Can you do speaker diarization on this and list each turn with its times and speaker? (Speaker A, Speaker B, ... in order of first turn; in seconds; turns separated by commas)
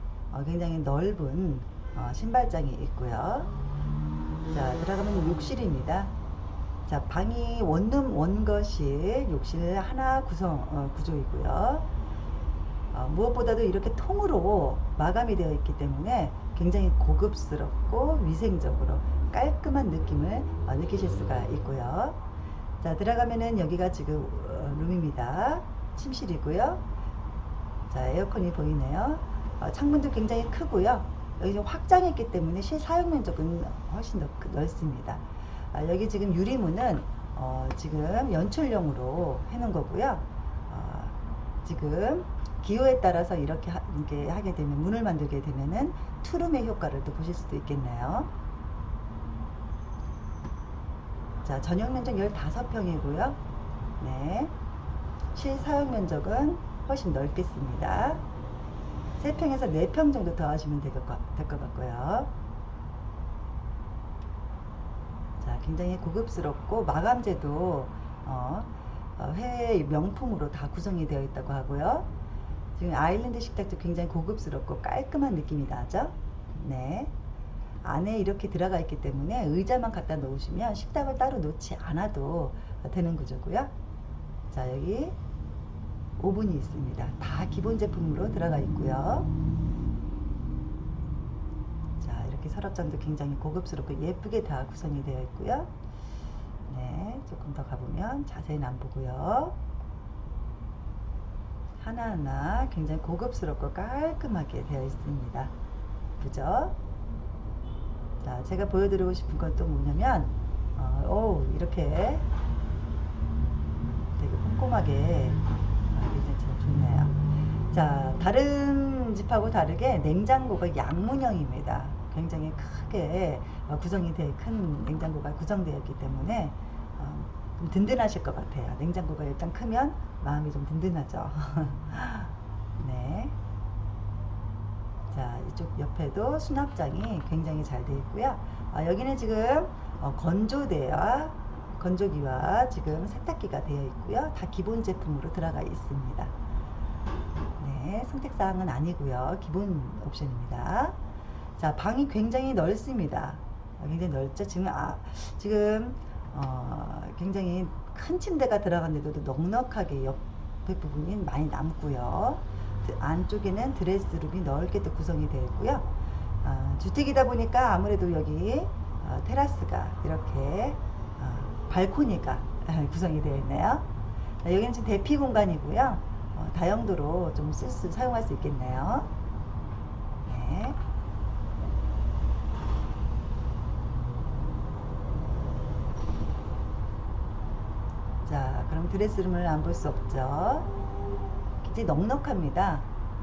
Speaker A: 0.3-3.5, Speaker A: 4.5-6.1, Speaker A: 6.8-11.9, Speaker A: 12.9-22.2, Speaker A: 22.8-26.8, Speaker A: 27.9-48.3, Speaker A: 51.4-53.4, Speaker A: 54.0-54.5, Speaker A: 55.3-58.2, Speaker A: 59.2-62.3, Speaker A: 65.4-72.1, Speaker A: 72.8-77.1, Speaker A: 77.8-83.7, Speaker A: 84.5-85.2, Speaker A: 86.2-89.3, Speaker A: 92.0-95.7, Speaker A: 96.7-99.6, Speaker A: 101.8-105.5, Speaker A: 106.2-106.8, Speaker A: 108.2-112.2, Speaker A: 114.2-117.2, Speaker A: 117.7-133.3, Speaker A: 135.1-146.3, Speaker A: 147.6-151.0, Speaker A: 151.6-165.9, Speaker A: 166.4-173.9, Speaker A: 174.4-179.1, Speaker A: 180.2-180.8, Speaker A: 188.2-190.7, Speaker A: 191.6-192.9